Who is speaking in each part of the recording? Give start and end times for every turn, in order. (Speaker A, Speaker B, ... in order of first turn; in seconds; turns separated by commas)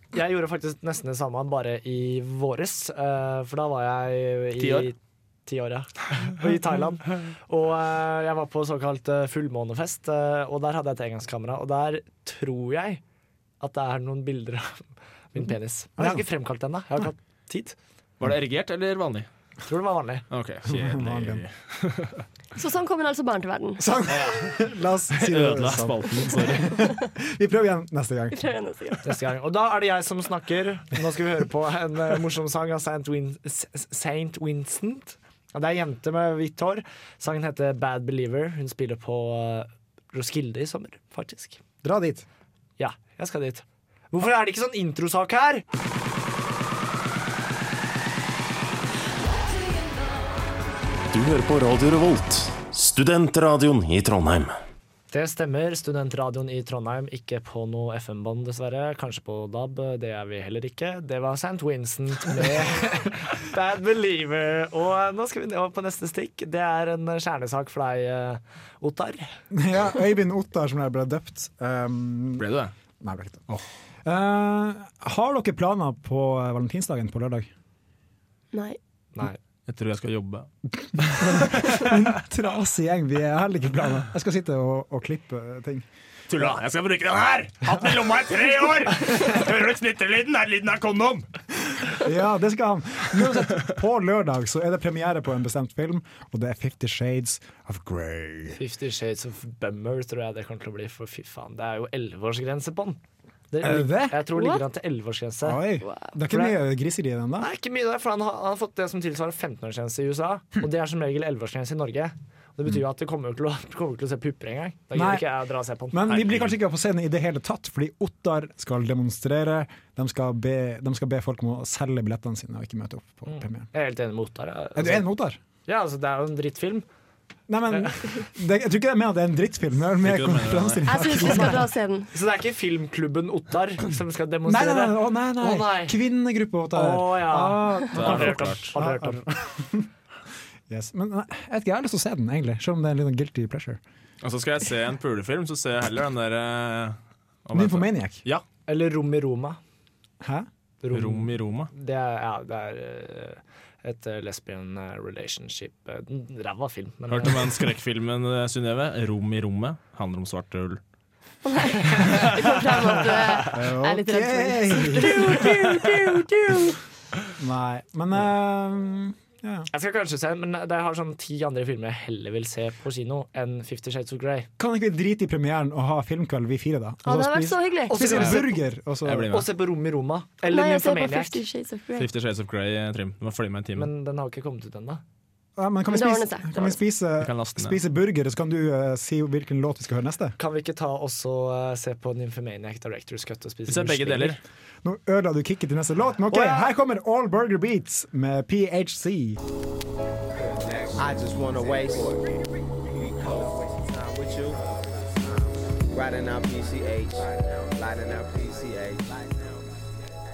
Speaker A: 0.1-13.0, Speaker B: 4.6-4.9, Speaker A: 13.6-17.8, Speaker C: 16.0-16.2, Speaker B: 18.2-19.3, Speaker A: 19.7-20.2, Speaker B: 20.3-22.2, Speaker C: 20.6-21.4, Speaker D: 22.6-23.9, Speaker C: 23.8-28.5, Speaker B: 24.1-24.6, Speaker B: 25.1-26.7, Speaker D: 28.3-29.1, Speaker A: 29.0-41.6, Speaker C: 41.8-42.3, Speaker A: 42.8-45.6, Speaker E: 51.1-54.6, Speaker A: 55.1-69.3, Speaker C: 69.5-72.5, Speaker B: 72.4-72.7, Speaker C: 73.0-73.5, Speaker C: 74.0-77.5, Speaker D: 78.5-78.8, Speaker B: 79.7-81.9, Speaker C: 81.2-85.9, Speaker B: 86.3-91.3, Speaker C: 91.9-98.6, Speaker A: 98.5-103.0, Speaker A: 103.5-105.6, Speaker C: 103.6-104.2, Speaker D: 104.3-104.6, Speaker C: 105.4-107.5, Speaker A: 106.2-106.6, Speaker A: 107.4-116.0, Speaker C: 114.9-115.2, Speaker C: 115.9-123.7, Speaker B: 116.1-116.5, Speaker A: 123.3-125.1, Speaker C: 124.8-125.4, Speaker A: 125.7-126.8, Speaker C: 127.5-131.7, Speaker B: 130.0-131.1, Speaker D: 130.8-132.1, Speaker A: 132.1-136.0, Speaker C: 134.5-139.9, Speaker A: 136.7-139.3, Speaker B: 137.9-138.7, Speaker C: 140.7-143.8, Speaker B: 144.2-148.4, Speaker C: 147.5-148.2, Speaker A: 148.7-149.6, Speaker C: 150.2-150.5, Speaker A: 150.8-157.5, Speaker B: 150.9-151.7, Speaker B: 157.1-160.8, Speaker D: 161.4-165.9, Speaker A: 161.8-162.2, Speaker C: 163.5-165.4, Speaker A: 165.0-166.6, Speaker C: 167.4-169.7, Speaker A: 169.7-174.5, Speaker C: 174.6-179.3, Speaker D: 177.1-178.4, Speaker A: 177.9-178.6, Speaker B: 179.0-179.5, Speaker A: 179.3-181.4, Speaker D: 180.4-182.1, Speaker B: 181.9-183.9, Speaker A: 183.8-185.0, Speaker C: 185.6-190.4, Speaker D: 185.9-186.8, Speaker B: 187.2-187.8, Speaker A: 190.4-194.4, Speaker B: 193.7-194.4, Speaker C: 194.8-199.4, Speaker F: 204.2-204.5, Speaker F: 206.1-207.0, Speaker F: 207.8-208.8